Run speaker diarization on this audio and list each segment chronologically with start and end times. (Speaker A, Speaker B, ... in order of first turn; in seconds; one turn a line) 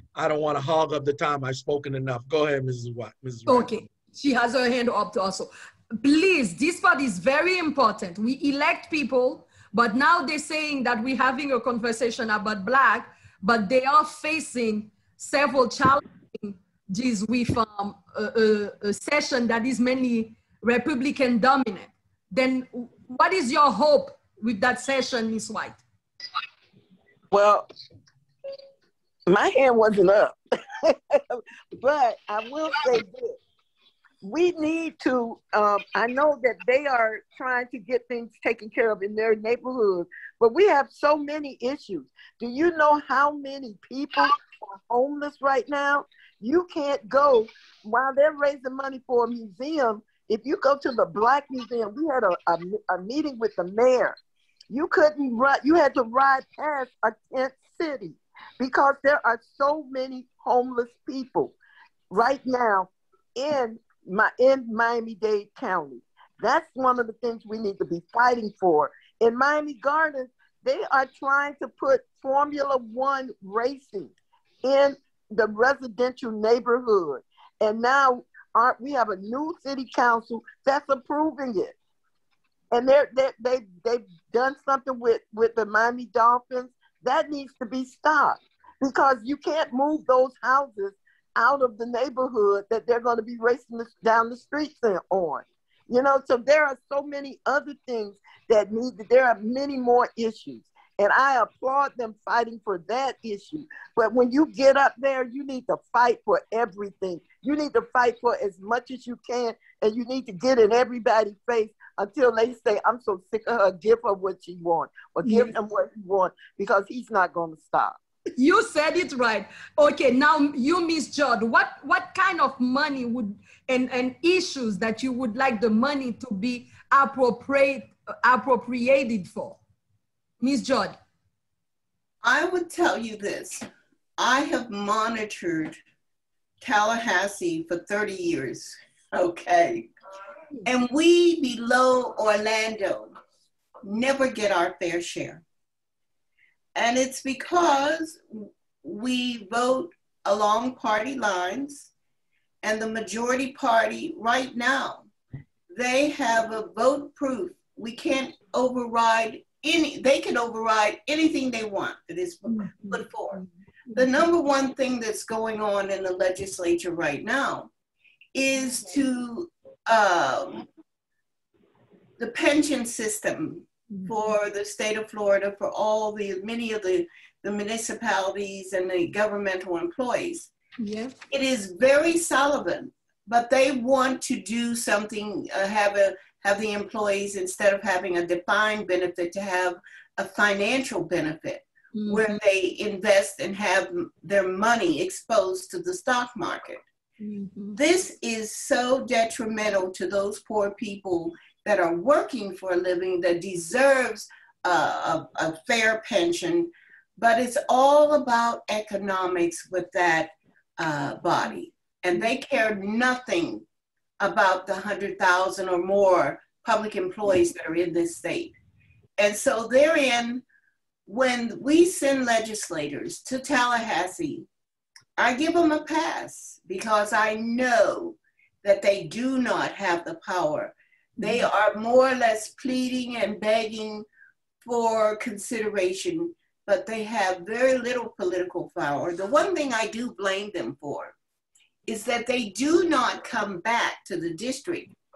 Speaker A: 0.1-3.7
Speaker B: 3.5-25.8
Speaker C: 27.3-27.7
Speaker C: 29.3-33.4
Speaker C: 34.2-54.2
Speaker C: 54.7-61.5
Speaker C: 62.1-81.7
Speaker C: 82.7-118.0
Speaker B: 115.2-115.5
Speaker B: 118.4-129.6
Speaker B: 130.4-131.0
Speaker D: 132.2-133.7
Speaker D: 134.2-135.8
Speaker D: 136.6-139.9
Speaker D: 140.7-143.1
Speaker D: 143.8-145.4
Speaker D: 146.8-151.9
Speaker D: 152.6-155.1
Speaker D: 155.7-163.4
Speaker B: 162.5-164.1
Speaker D: 163.9-167.7
Speaker D: 168.3-170.6
Speaker D: 172.2-180.5
Speaker B: 173.9-174.2
Speaker B: 180.8-181.2
Speaker D: 181.3-196.8
Speaker B: 191.9-192.3
Speaker B: 197.2-197.8
Speaker D: 197.7-213.6
Speaker D: 214.2-218.5
Speaker D: 219.2-220.4
Speaker D: 221.1-224.5
Speaker D: 225.2-234.1
Speaker B: 231.2-231.5
Speaker D: 234.6-241.1
Speaker D: 241.9-244.9